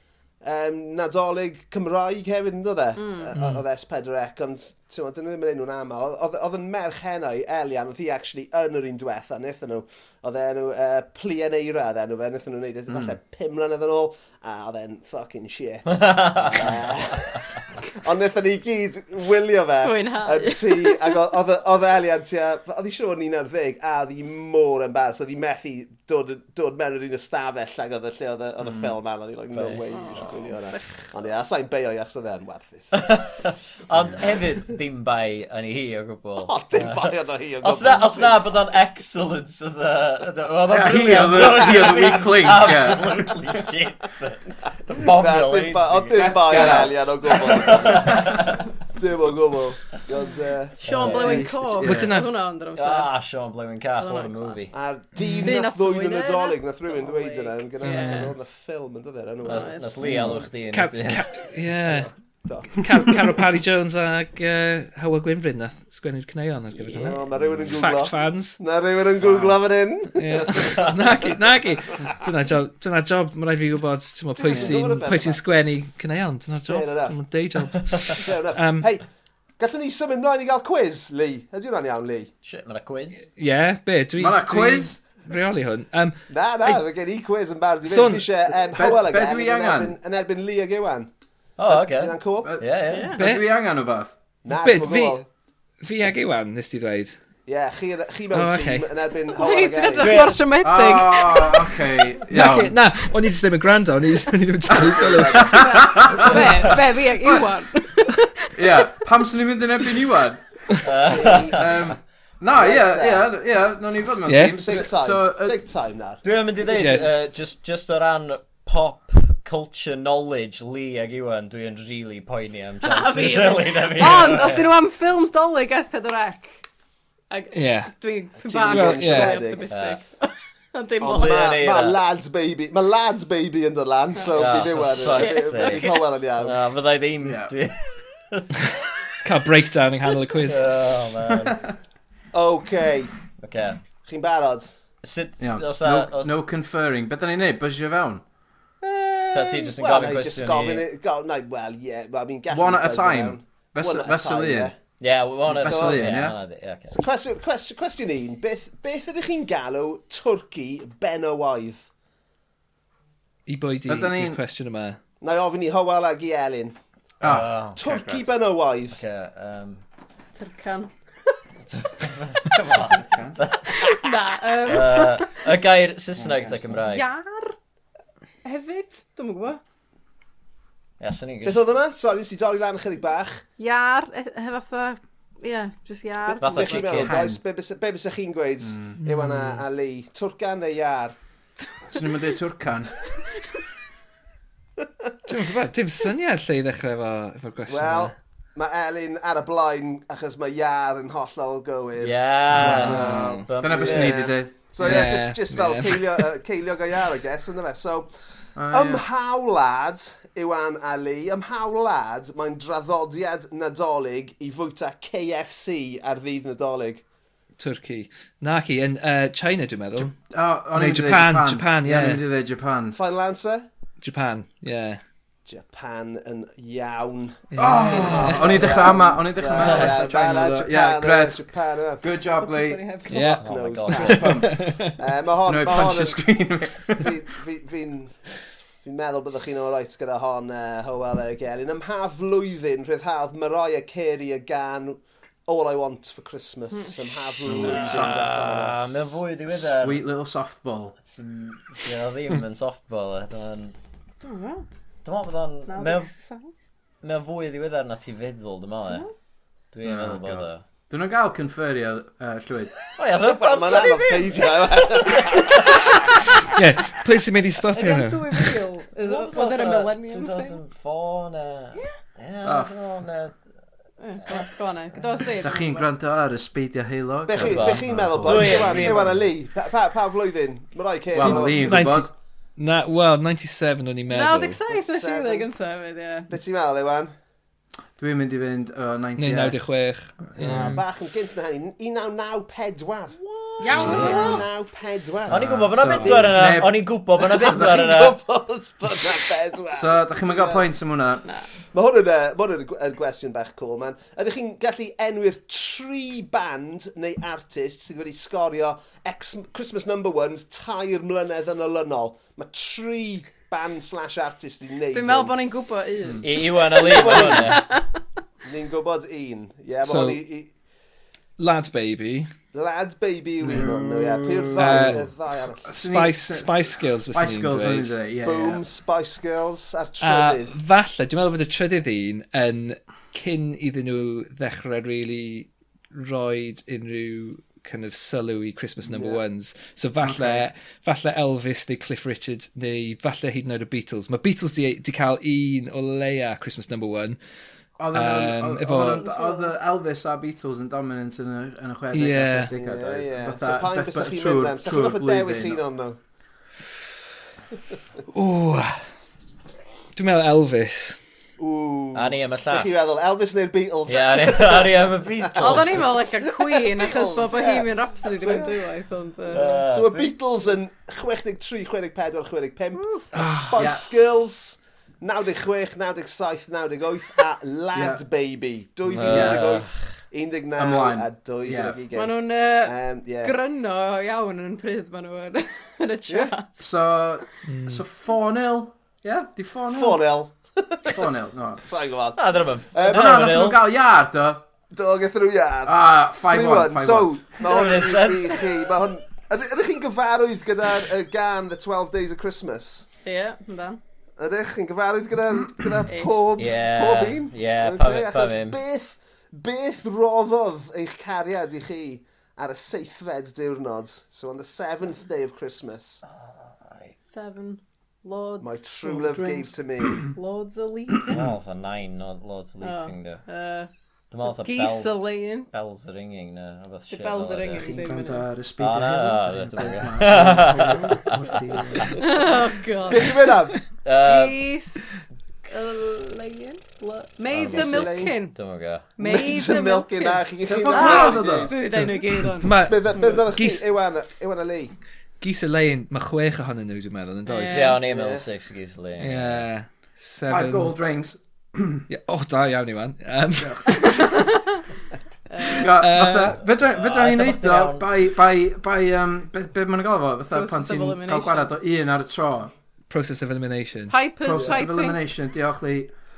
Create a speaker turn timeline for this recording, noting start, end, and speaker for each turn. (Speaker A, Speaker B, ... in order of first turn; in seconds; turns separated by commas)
Speaker A: 0.4-33.0, Speaker B: 3.0-3.3, Speaker C: 12.9-13.1, Speaker D: 15.9-16.8, Speaker B: 19.8-21.2, Speaker D: 29.5-29.8, Speaker B: 29.9-31.1, Speaker D: 32.9-37.1, Speaker A: 36.4-38.4, Speaker D: 37.6-48.6, Speaker C: 40.7-43.2, Speaker A: 45.0-52.0, Speaker C: 46.1-48.3, Speaker B: 50.8-53.1, Speaker D: 50.9-51.5, Speaker C: 50.9-51.5, Speaker E: 51.8-52.3, Speaker D: 52.7-54.7, Speaker B: 54.0-54.6, Speaker A: 54.7-59.9, Speaker E: 55.1-55.5, Speaker B: 55.4-58.2, Speaker E: 57.8-58.3, Speaker B: 59.4-60.0, Speaker D: 59.4-61.3, Speaker C: 60.0-60.4, Speaker E: 60.7-62.1, Speaker A: 61.8-63.2, Speaker E: 62.7-68.6, Speaker A: 66.8-71.3, Speaker C: 69.2-69.5, Speaker E: 70.2-78.9, Speaker A: 74.4-75.4, Speaker C: 74.5-74.8, Speaker A: 76.7-77.2, Speaker A: 78.2-79.0, Speaker A: 79.6-82.3, Speaker D: 82.4-83.2, Speaker E: 83.3-86.8, Speaker C: 84.2-85.0, Speaker A: 86.3-91.1, Speaker E: 87.8-88.3, Speaker C: 88.7-89.9, Speaker D: 91.6-93.1, Speaker A: 91.7-92.5, Speaker C: 92.4-94.1, Speaker B: 92.9-93.2, Speaker E: 93.2-93.5, Speaker A: 94.4-95.3, Speaker E: 94.5-95.2, Speaker E: 95.8-97.2, Speaker A: 97.5-100.2, Speaker E: 98.3-98.9, Speaker B: 99.3-101.7, Speaker D: 100.0-100.4, Speaker C: 100.6-102.7, Speaker E: 102.3-105.5, Speaker A: 104.7-106.5, Speaker C: 104.7-107.5, Speaker B: 105.5-108.8, Speaker D: 106.3-106.8, Speaker C: 108.5-115.6, Speaker D: 110.8-111.9, Speaker A: 111.0-111.7, Speaker A: 112.5-113.3, Speaker E: 114.3-114.7, Speaker A: 114.6-116.2, Speaker D: 116.2-124.7, Speaker E: 116.7-117.1, Speaker B: 122.8-126.6, Speaker B: 127.3-131.6, Speaker E: 127.5-127.9, Speaker A: 128.4-129.7, Speaker E: 128.7-129.4, Speaker D: 129.7-130.0, Speaker A: 131.0-136.6, Speaker D: 131.0-132.0, Speaker B: 134.2-136.1, Speaker D: 134.3-138.7, Speaker C: 137.2-137.5, Speaker E: 139.2-140.7, Speaker D: 140.4-141.7, Speaker C: 141.4-141.7, Speaker A: 142.3-143.1, Speaker D: 143.4-143.8, Speaker A: 144.0-144.7, Speaker D: 145.0-146.3, Speaker C: 145.4-148.2, Speaker A: 148.8-154.8, Speaker D: 149.3-150.8, Speaker C: 152.5-154.7, Speaker D: 155.0-157.0, Speaker C: 155.4-156.3, Speaker A: 155.6-156.1, Speaker A: 156.9-161.9, Speaker E: 163.5-165.0, Speaker C: 163.9-164.4, Speaker A: 165.2-166.7, Speaker C: 167.2-167.5, Speaker D: 167.2-168.2, Speaker A: 167.8-169.0, Speaker D: 168.9-169.8, Speaker B: 170.3-171.3, Speaker D: 171.9-174.0, Speaker C: 172.8-173.4, Speaker B: 173.7-175.5, Speaker D: 174.6-177.0, Speaker C: 176.2-176.6, Speaker B: 176.7-177.5, Speaker B: 178.4-179.6, Speaker D: 181.0-181.6, Speaker A: 181.4-183.4, Speaker B: 183.6-186.9, Speaker A: 186.2-191.2, Speaker D: 186.4-187.2, Speaker C: 186.8-187.4, Speaker C: 188.6-189.0, Speaker E: 189.0-189.6, Speaker C: 191.9-193.0, Speaker E: 195.2-198.1, Speaker A: 197.7-208.1, Speaker D: 202.0-204.4, Speaker C: 202.5-205.1, Speaker E: 202.5-203.5, Speaker E: 204.8-206.3, Speaker C: 208.6-209.0, Speaker A: 208.7-217.0, Speaker E: 217.6-220.1, Speaker C: 220.0-223.0, Speaker E: 220.7-222.2, Speaker A: 222.9-223.7, Speaker E: 224.0-225.0, Speaker A: 225.4-232.0, Speaker E: 227.5-228.7, Speaker C: 227.6-232.8, Speaker D: 229.6-229.9, Speaker B: 232.4-233.4, Speaker E: 233.1-233.4, Speaker A: 233.2-236.2, Speaker D: 233.4-234.3, Speaker C: 233.8-234.7, Speaker E: 234.1-235.0, Speaker C: 235.4-237.2, Speaker A: 237.0-238.2, Speaker A: 238.8-249.2, Speaker B: 246.7-247.2, Speaker C: 247.4-248.4, Speaker D: 247.4-250.0, Speaker C: 249.5-251.0, Speaker D: 251.0-253.8, Speaker B: 254.2-254.6, Speaker D: 255.0-256.1, Speaker B: 255.7-256.5, Speaker D: 257.0-259.0, Speaker B: 258.8-259.1, Speaker D: 259.7-260.6, Speaker C: 259.8-262.8, Speaker D: 262.9-265.6, Speaker A: 263.1-265.8, Speaker E: 266.4-268.3, Speaker B: 267.7-270.6, Speaker D: 269.0-273.5, Speaker C: 272.4-272.8, Speaker B: 274.0-275.9, Speaker C: 275.4-279.2, Speaker A: 277.2-281.9, Speaker D: 277.4-279.1, Speaker C: 281.1-282.1, Speaker E: 281.2-284.6, Speaker B: 284.1-286.3, Speaker A: 284.7-285.5, Speaker A: 286.3-287.1, Speaker C: 288.0-289.6, Speaker E: 289.2-290.8, Speaker A: 290.4-293.2, Speaker D: 293.4-294.4, Speaker B: 293.6-294.4, Speaker A: 293.7-296.4, Speaker C: 293.8-294.3, Speaker E: 293.9-294.2, Speaker D: 295.3-298.2, Speaker C: 295.3-298.0, Speaker A: 297.1-300.6, Speaker C: 299.7-301.2, Speaker A: 301.7-315.3, Speaker B: 314.9-317.9, Speaker D: 316.2-317.6, Speaker A: 316.7-317.6, Speaker A: 318.4-320.5, Speaker E: 319.8-320.2, Speaker E: 321.4-322.3, Speaker A: 322.5-325.8, Speaker C: 323.4-328.6, Speaker E: 324.6-325.1, Speaker E: 325.7-327.9, Speaker A: 328.2-330.6, Speaker E: 330.0-347.2, Speaker A: 338.8-339.2, Speaker C: 340.0-340.4, Speaker C: 347.8-355.6, Speaker E: 347.9-349.1, Speaker B: 348.9-349.5, Speaker E: 351.9-352.5, Speaker A: 352.5-356.0, Speaker E: 358.1-358.8, Speaker E: 359.9-361.0, Speaker A: 361.4-368.6, Speaker D: 361.9-362.8, Speaker D: 363.9-366.0, Speaker B: 365.3-369.6, Speaker D: 369.3-370.1, Speaker A: 369.4-383.3, Speaker B: 372.8-373.1, Speaker C: 373.5-373.9, Speaker C: 377.7-378.0, Speaker D: 378.9-379.9, Speaker C: 379.0-379.6, Speaker C: 380.6-381.8, Speaker B: 381.9-386.7, Speaker A: 386.1-386.3, Speaker C: 386.6-390.0, Speaker E: 387.4-387.8, Speaker A: 389.7-391.0, Speaker C: 390.9-391.6, Speaker A: 391.6-392.2, Speaker D: 392.1-393.6, Speaker A: 392.7-393.4, Speaker C: 392.8-394.4, Speaker A: 394.7-402.9, Speaker C: 395.6-397.6, Speaker D: 397.4-398.4, Speaker B: 403.0-403.8, Speaker A: 404.2-416.0, Speaker B: 405.9-406.2, Speaker D: 406.4-408.6, Speaker D: 416.2-416.9, Speaker B: 417.1-418.6, Speaker A: 418.4-420.0, Speaker C: 418.9-420.1, Speaker B: 420.1-421.2, Speaker D: 421.1-423.2, Speaker B: 422.6-423.7, Speaker D: 424.1-427.8, Speaker B: 424.2-425.5, Speaker B: 426.9-428.3, Speaker C: 427.5-432.0, Speaker D: 428.6-431.9, Speaker B: 431.9-438.4, Speaker A: 432.9-433.6, Speaker D: 433.8-434.4, Speaker D: 437.3-438.9, Speaker A: 437.4-438.1, Speaker B: 439.0-442.7, Speaker A: 439.0-441.6, Speaker C: 440.4-441.5, Speaker E: 441.7-443.7, Speaker A: 442.6-444.7, Speaker E: 445.2-447.8, Speaker B: 447.2-447.8, Speaker D: 447.5-449.4, Speaker A: 447.8-448.2, Speaker E: 449.0-450.8, Speaker C: 450.3-451.8, Speaker E: 451.9-454.1, Speaker C: 453.4-453.7, Speaker B: 453.8-454.6, Speaker B: 455.3-455.7, Speaker C: 455.4-462.5, Speaker E: 455.6-456.4, Speaker D: 456.6-457.9, Speaker B: 460.3-461.5, Speaker E: 462.9-463.9, Speaker B: 463.9-465.0, Speaker C: 464.2-465.9